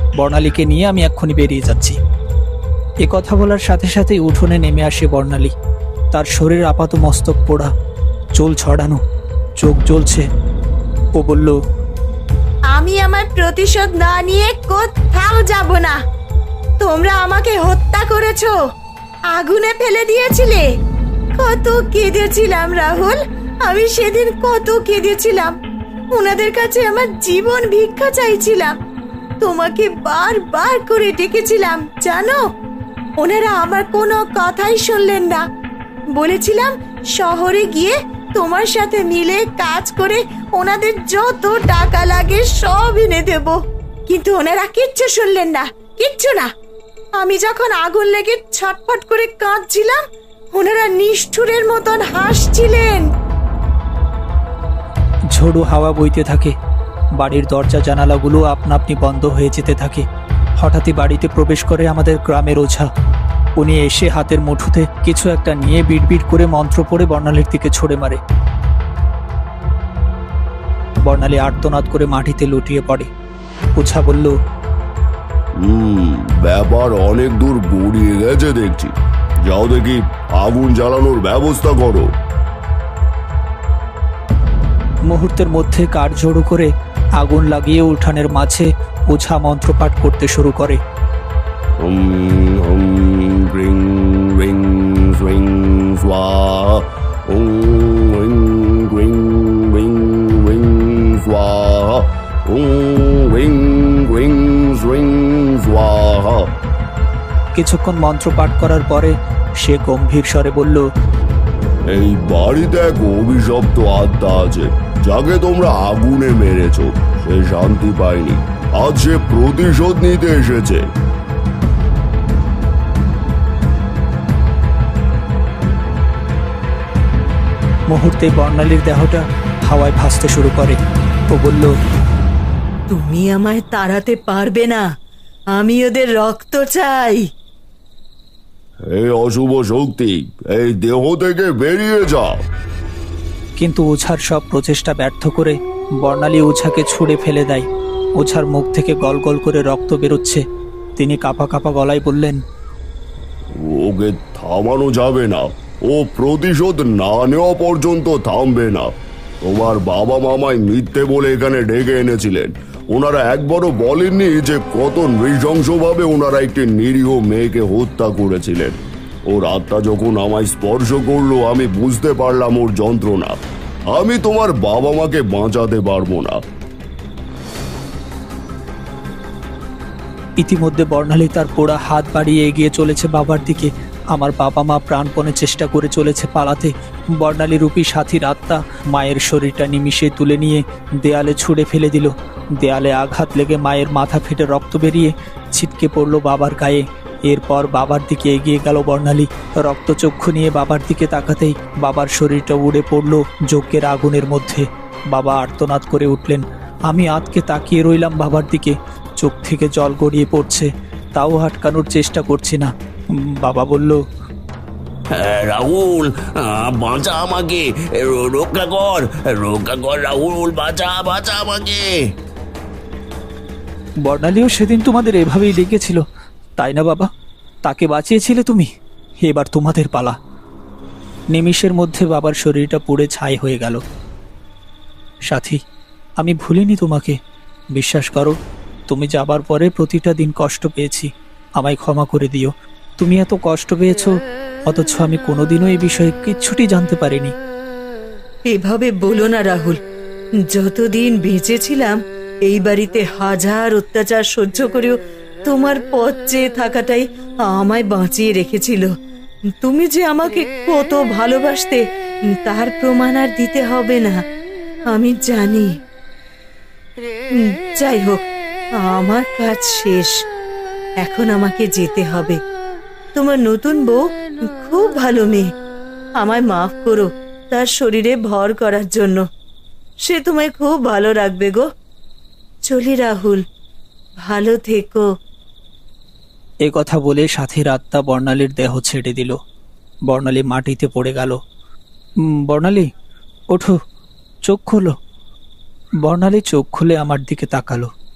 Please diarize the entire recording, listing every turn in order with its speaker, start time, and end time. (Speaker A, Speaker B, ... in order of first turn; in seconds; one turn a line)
Speaker A: 0.1-2.0
Speaker A: 3.0-5.5
Speaker A: 6.1-7.7
Speaker A: 8.4-9.0
Speaker A: 9.6-10.3
Speaker A: 11.2-11.6
Speaker B: 12.7-16.0
Speaker B: 16.8-18.6
Speaker B: 19.3-20.7
Speaker B: 21.4-25.5
Speaker B: 26.1-28.7
Speaker B: 29.4-32.4
Speaker B: 33.2-35.4
Speaker B: 36.1-43.6
Speaker B: 44.1-46.5
Speaker B: 47.2-50.0
Speaker B: 50.5-53.1
Speaker A: 55.3-56.5
Speaker A: 57.2-60.1
Speaker A: 60.6-62.9
Speaker A: 63.6-68.2
Speaker A: 71.0-73.1
Speaker A: 73.8-74.4
Speaker C: 75.6-78.9
Speaker C: 79.5-82.1
Speaker A: 85.1-90.8
Speaker C: 91.8-106.5
Speaker A: 107.5-110.8
Speaker C: 111.9-120.8
Speaker A: 127.9-130.8
Speaker A: 131.3-131.7
Speaker D: 132.9-134.8
Speaker D: 135.6-137.2
Speaker C: 138.9-142.4
Speaker A: 143.6-150.4
Speaker A: 151.0-152.4
Speaker C: 153.6-158.9
Speaker C: 159.4-173.4
Speaker C: 173.9-176.4
Speaker A: 180.4-212.7
Speaker A: 213.3-214.0
Speaker E: 215.2-222.0
Speaker A: 224.0-226.0
Speaker A: 226.6-227.1
Speaker A: 227.7-228.7
Speaker A: 229.2-230.2
Speaker A: 231.3-233.8
Speaker A: 235.3-235.6
Speaker A: 236.2-237.2
Speaker A: 237.8-238.4
Speaker A: 238.9-244.1
Speaker A: 244.7-247.3
Speaker D: 248.5-249.8
Speaker D: 250.5-254.9
Speaker D: 255.5-258.9
Speaker D: 259.6-261.8
Speaker D: 262.4-264.2
Speaker D: 264.9-265.7
Speaker D: 267.4-268.2
Speaker D: 268.9-270.1
Speaker D: 271.0-272.4
Speaker D: 273.1-274.0
Speaker D: 274.6-275.5
Speaker D: 276.2-279.2
Speaker D: 280.1-281.6
Speaker D: 282.7-283.4
Speaker D: 284.2-285.1
Speaker A: 286.6-289.4
Speaker A: 290.1-291.4
Speaker A: 292.5-292.9
Speaker A: 294.5-294.9
Speaker A: 296.1-297.9